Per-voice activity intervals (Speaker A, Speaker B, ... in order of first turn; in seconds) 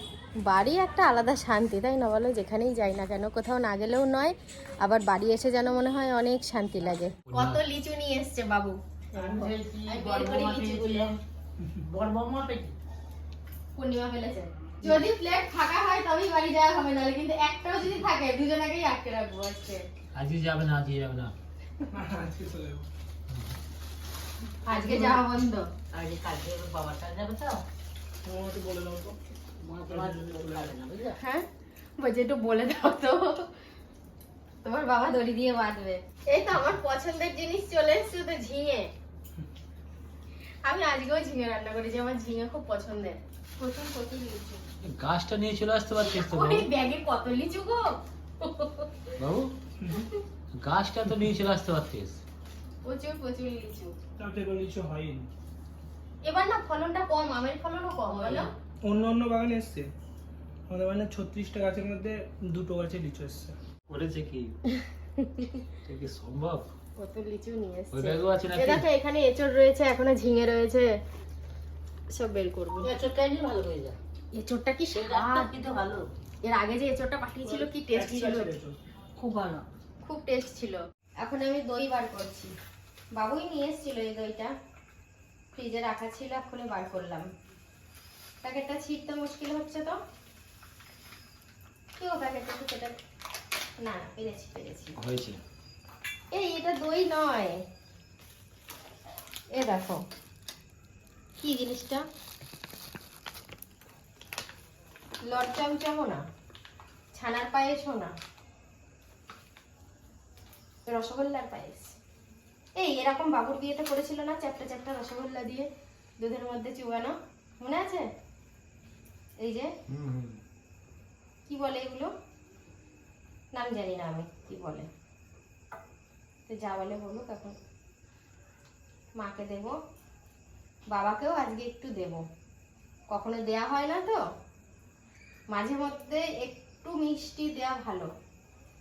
Speaker A: 0.5-11.1, 13.8-19.9, 24.6-25.7, 31.1-31.5, 32.0-33.5, 34.6-38.9, 40.6-44.6, 46.0-47.8, 48.4-48.9, 49.9-50.2, 52.8-53.9, 56.2-58.5, 64.8-65.6, 67.0-70.9, 72.1-72.9, 74.3-75.6, 76.4-78.5, 80.0-82.5, 83.2-84.5, 85.5-87.3, 88.4-90.0, 92.0-93.0, 93.8-95.0, 96.3-97.6, 99.5-100.0, 101.4-102.0, 105.3-106.2, 107.1-108.1, 110.9-112.0, 112.8-115.7, 116.2-118.1, 119.4-119.7, 121.5-122.1, 123.5-124.9, 126.5-127.6, 129.2-129.8, 130.9-132.2, 133.1-134.2, 135.5-138.1
Speaker B: 7.3-7.6, 20.1-21.3, 23.3-23.6, 44.8-46.7, 49.2-49.5, 50.5-52.2, 63.9-64.5, 65.8-66.7, 67.9-68.9, 95.0-95.4, 119.9-120.4
Speaker C: 9.2-11.2, 11.8-12.7, 24.7-25.2, 25.9-27.6, 29.6-31.1, 58.1-58.5, 72.8-74.0, 74.9-76.1, 79.2-79.6
Speaker D: 21.9-22.9, 28.2-29.2, 29.9-30.7, 54.2-55.3, 58.8-59.9, 60.7-63.6, 77.5-78.8